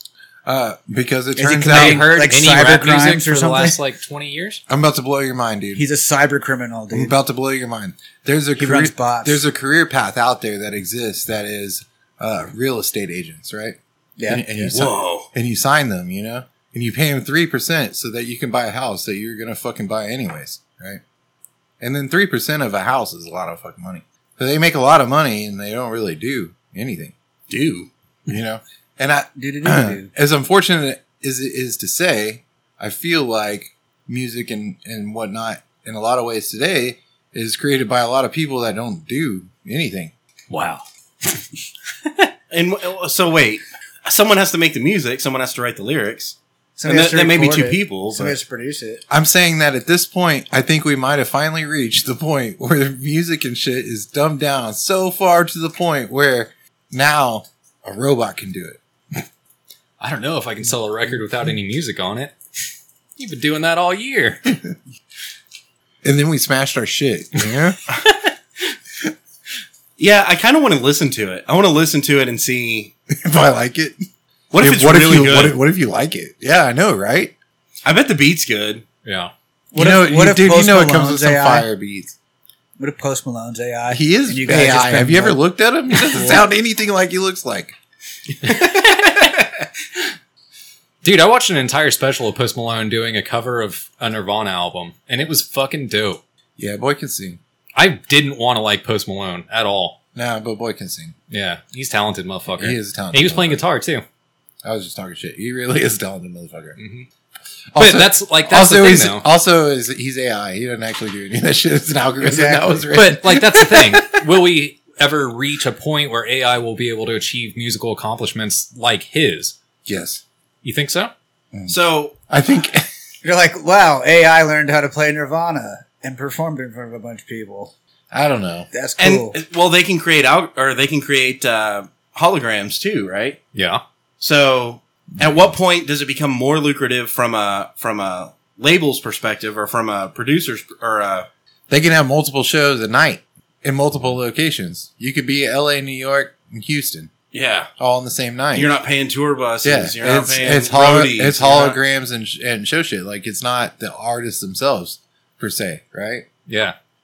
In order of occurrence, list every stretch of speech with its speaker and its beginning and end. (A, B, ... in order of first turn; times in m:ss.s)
0:00.5-0:02.1 A
0:01.4-0:03.8 B
0:01.7-0:04.6 C
0:04.7-0:05.8 A
0:05.8-0:07.2 B
0:06.9-0:21.0 A
0:08.6-0:09.4 B
0:14.2-0:14.4 B
0:14.7-0:15.3 D
0:21.8-0:27.1 A
0:27.5-0:27.9 D
0:28.3-0:40.1 A
0:29.4-0:30.1 B
0:40.5-0:41.4 C
0:42.5-0:46.4 D
0:46.8-0:49.0 B
0:46.9-0:48.4 D
0:49.1-0:58.8 A
1:00.0-1:02.3 C
1:03.2-1:04.5 C
1:06.0-1:07.8 A
1:10.0-1:12.9 D
1:13.1-1:14.0 A
1:14.5-1:15.6 D
1:14.6-1:17.3 A
1:17.8-1:18.8 D
1:19.0-1:19.3 C
1:19.7-1:21.7 B
1:19.8-1:22.2 A
1:22.8-1:25.4 B
1:23.9-1:27.7 A
1:26.1-1:26.4 C
1:28.4-1:29.3 C
1:31.0-1:36.2 C
1:36.6-1:37.4 A
1:37.8-1:40.0 C
1:40.2-1:41.1 A
1:41.3-1:44.0 C
1:42.6-1:43.6 A
1:44.6-1:46.8 A
1:46.8-1:47.1 C
1:47.7-1:54.3 A
1:47.8-1:49.3 C
1:52.2-1:52.8 B
1:52.9-1:59.6 C
1:59.8-2:00.2 A
2:00.6-2:01.1 C
2:01.7-2:02.2 D
2:02.3-2:02.9 A
2:03.2-2:07.7 B
2:08.1-2:08.7 A
2:08.7-2:09.4 B
2:09.0-2:13.4 D
2:13.5-2:13.8 C
2:14.2-2:21.3 D
2:21.7-2:27.1 A
2:27.3-2:27.7 D
2:27.8-2:28.7 A
2:28.5-2:31.8 D
2:29.6-2:36.3 A
2:36.5-2:36.8 C